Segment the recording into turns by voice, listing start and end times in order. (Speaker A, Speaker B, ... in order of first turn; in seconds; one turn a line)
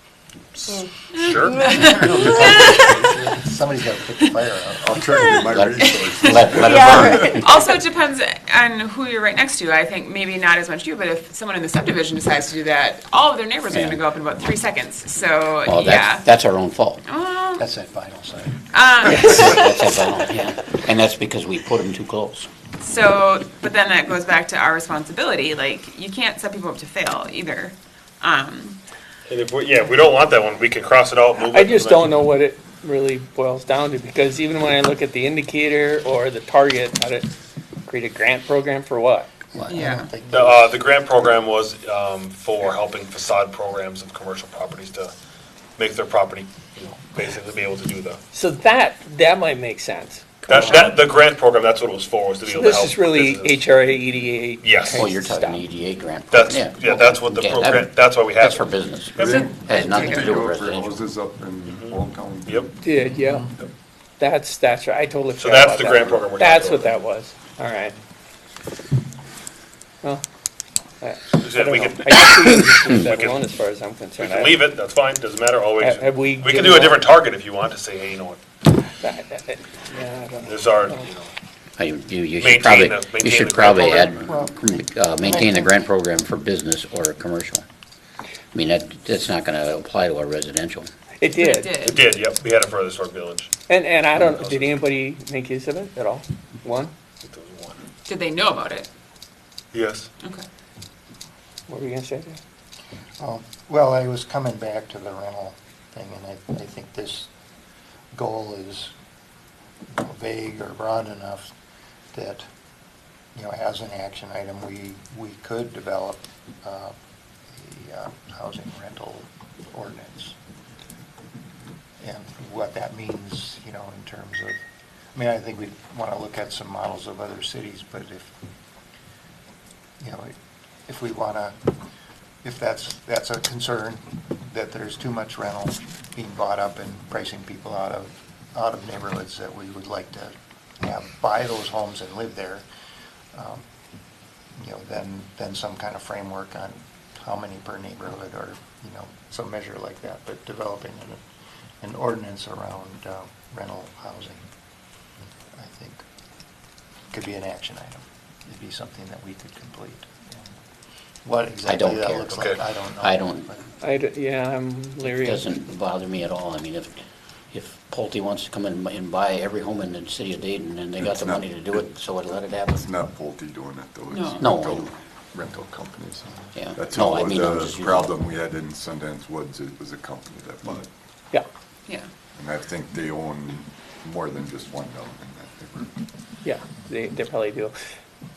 Speaker A: 0.6-1.7
Speaker B: 1.1-3.1
Speaker C: 2.0-5.0
Speaker D: 2.1-3.0
Speaker D: 4.8-7.7
Speaker E: 5.4-7.5
Speaker B: 6.0-16.3
Speaker E: 13.7-14.0
Speaker E: 15.7-17.0
Speaker B: 17.1-17.7
Speaker C: 17.6-18.8
Speaker B: 18.7-20.0
Speaker E: 19.1-22.5
Speaker B: 22.8-28.8
Speaker A: 29.3-32.1
Speaker F: 31.5-37.3
Speaker F: 37.9-39.5
Speaker C: 39.5-40.8
Speaker B: 39.7-40.1
Speaker A: 40.3-45.1
Speaker A: 45.8-48.2
Speaker F: 48.3-51.0
Speaker A: 50.5-53.6
Speaker F: 52.5-55.6
Speaker A: 54.6-55.1
Speaker E: 54.9-61.0
Speaker A: 56.3-59.5
Speaker D: 59.2-62.7
Speaker B: 59.2-60.3
Speaker A: 61.6-62.7
Speaker F: 62.8-63.5
Speaker C: 63.1-63.5
Speaker F: 64.2-68.0
Speaker A: 65.4-67.0
Speaker F: 71.0-74.7
Speaker A: 71.4-72.3
Speaker E: 72.4-72.8
Speaker A: 73.0-73.4
Speaker A: 74.2-78.4
Speaker F: 75.8-77.0
Speaker F: 79.0-81.1
Speaker A: 80.4-81.3
Speaker E: 81.8-87.6
Speaker A: 82.4-84.2
Speaker C: 84.3-85.8
Speaker E: 88.5-90.9
Speaker F: 91.2-91.8
Speaker B: 91.4-92.1
Speaker A: 91.8-93.5
Speaker F: 93.7-96.9
Speaker A: 94.2-94.8
Speaker A: 97.2-97.8
Speaker B: 98.0-98.9
Speaker A: 99.7-100.1
Speaker F: 101.7-102.4
Speaker C: 103.2-107.3
Speaker C: 108.1-108.9
Speaker C: 109.9-111.5
Speaker C: 112.1-112.5
Speaker C: 113.3-117.0
Speaker C: 117.5-120.4
Speaker C: 122.0-124.6
Speaker C: 125.2-128.3
Speaker C: 130.0-130.3
Speaker C: 130.9-131.7
Speaker C: 132.4-142.7
Speaker C: 143.3-143.6
Speaker C: 144.6-151.2
Speaker C: 151.8-154.4
Speaker C: 155.5-156.0
Speaker C: 157.1-160.5
Speaker C: 161.2-163.6
Speaker E: 161.7-163.5
Speaker A: 162.3-162.6
Speaker F: 163.8-165.5
Speaker E: 165.0-172.8
Speaker D: 171.0-171.9
Speaker D: 172.7-180.9
Speaker B: 174.1-174.5
Speaker E: 174.4-174.9
Speaker E: 176.5-178.1
Speaker D: 182.4-185.9
Speaker F: 186.4-187.8